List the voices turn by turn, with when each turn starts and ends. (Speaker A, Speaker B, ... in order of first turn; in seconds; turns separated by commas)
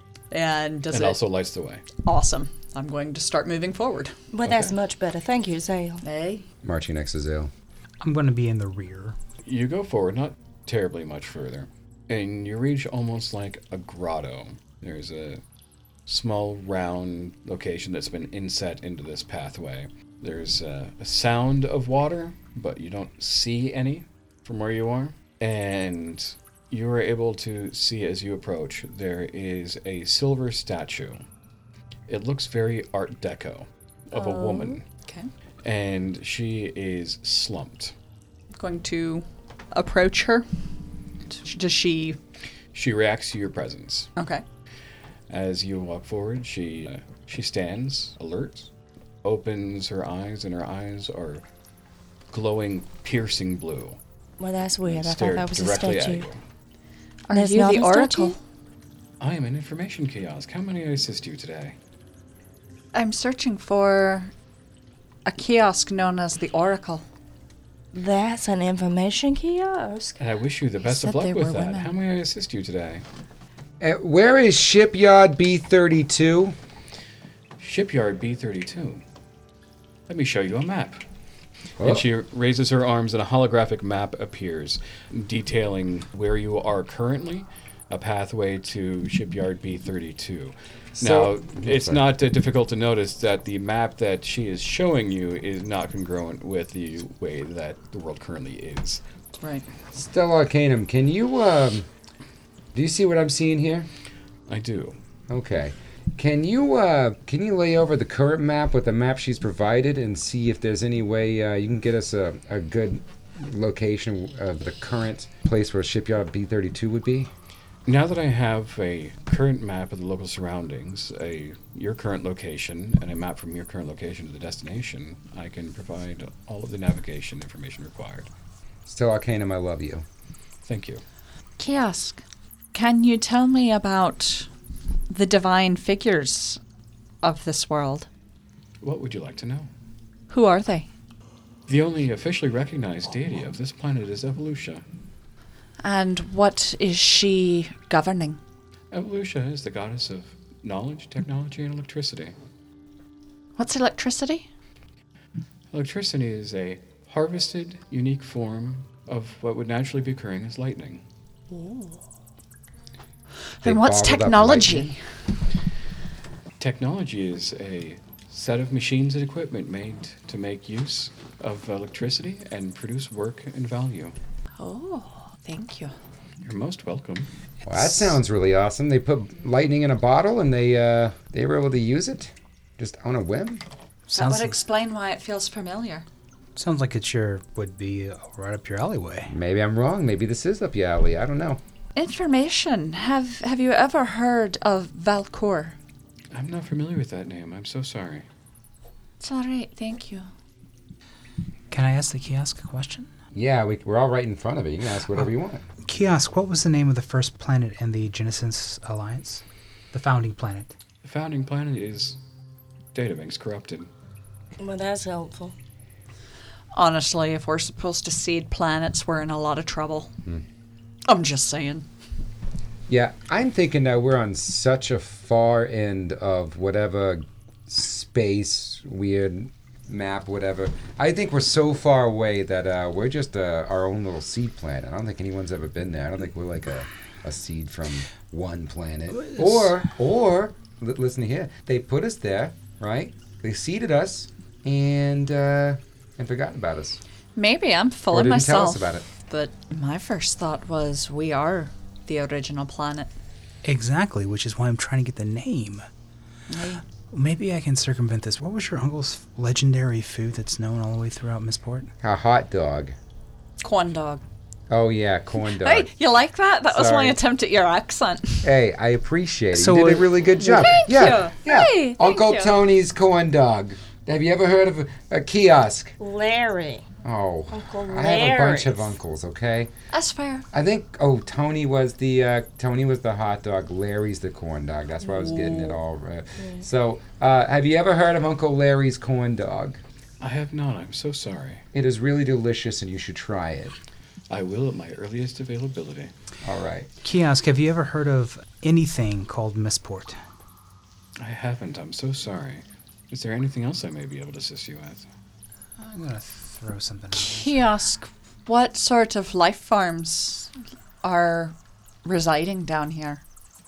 Speaker A: 0.3-1.2, Speaker B: 0.9-1.8, Speaker A: 2.0-4.1, Speaker C: 4.3-6.0, Speaker B: 4.4-4.8, Speaker A: 6.0-6.4, Speaker D: 6.6-7.5, Speaker E: 8.0-9.2, Speaker B: 9.4-15.4, Speaker B: 16.1-31.2, Speaker B: 32.1-34.8, Speaker A: 34.1-35.3, Speaker B: 35.6-37.9, Speaker A: 38.5-40.5, Speaker A: 41.3-42.2, Speaker B: 42.7-44.1, Speaker A: 44.1-44.4, Speaker B: 45.3-48.7, Speaker B: 49.2-51.4, Speaker B: 52.3-54.0, Speaker C: 54.4-56.2, Speaker B: 54.8-56.4, Speaker A: 57.3-58.4, Speaker C: 57.3-58.4, Speaker B: 59.2-61.8, Speaker A: 62.9-64.3, Speaker A: 65.2-67.0, Speaker C: 67.9-70.2, Speaker B: 70.2-73.0, Speaker A: 70.8-71.9, Speaker D: 73.8-76.5, Speaker B: 77.6-79.0, Speaker B: 80.1-81.0, Speaker B: 81.8-99.0, Speaker D: 90.9-92.0, Speaker A: 99.4-99.7, Speaker D: 99.9-101.9, Speaker D: 102.7-103.9, Speaker B: 104.5-105.0, Speaker D: 105.3-117.3, Speaker B: 117.8-128.3, Speaker D: 128.8-130.0, Speaker B: 130.6-131.0, Speaker A: 131.6-134.5, Speaker A: 135.1-136.6, Speaker A: 137.2-138.1, Speaker B: 138.8-139.7, Speaker A: 140.3-140.9, Speaker B: 141.7-144.8, Speaker A: 145.8-148.4, Speaker B: 148.9-152.3, Speaker A: 153.6-154.5, Speaker B: 155.7-161.0, Speaker A: 161.5-161.9, Speaker A: 163.6-165.0, Speaker D: 163.6-164.9, Speaker B: 166.6-174.1, Speaker A: 174.6-175.9, Speaker B: 176.4-177.3, Speaker E: 177.6-178.1, Speaker D: 177.7-183.6, Speaker E: 184.1-184.6, Speaker A: 184.1-186.1, Speaker E: 186.6-189.3, Speaker D: 189.3-191.6, Speaker A: 191.9-195.8, Speaker B: 196.3-198.2, Speaker A: 199.2-200.3, Speaker E: 201.7-203.1, Speaker D: 203.3-205.6, Speaker E: 205.8-210.7, Speaker B: 211.0-212.2, Speaker B: 212.9-213.9, Speaker C: 214.6-215.5, Speaker A: 216.7-220.1, Speaker A: 221.1-221.8, Speaker D: 222.9-247.0, Speaker E: 239.2-239.8, Speaker A: 247.3-253.1, Speaker D: 248.1-249.1, Speaker E: 253.6-255.8, Speaker A: 256.5-256.8, Speaker E: 257.1-261.9, Speaker D: 262.0-262.9, Speaker A: 263.6-264.2, Speaker D: 264.7-265.9, Speaker A: 265.6-268.5, Speaker D: 266.7-267.2, Speaker D: 268.4-275.9, Speaker E: 269.5-270.5, Speaker A: 270.4-272.6, Speaker C: 276.0-276.9, Speaker D: 277.0-279.7, Speaker C: 277.5-278.9, Speaker A: 279.9-280.4, Speaker D: 280.5-289.8, Speaker A: 285.1-285.7, Speaker C: 286.4-286.6, Speaker B: 290.2-291.6, Speaker D: 291.7-293.8, Speaker B: 294.3-296.1, Speaker D: 296.4-296.9, Speaker E: 297.0-300.2, Speaker B: 301.2-305.1, Speaker E: 305.8-307.6, Speaker A: 307.1-313.2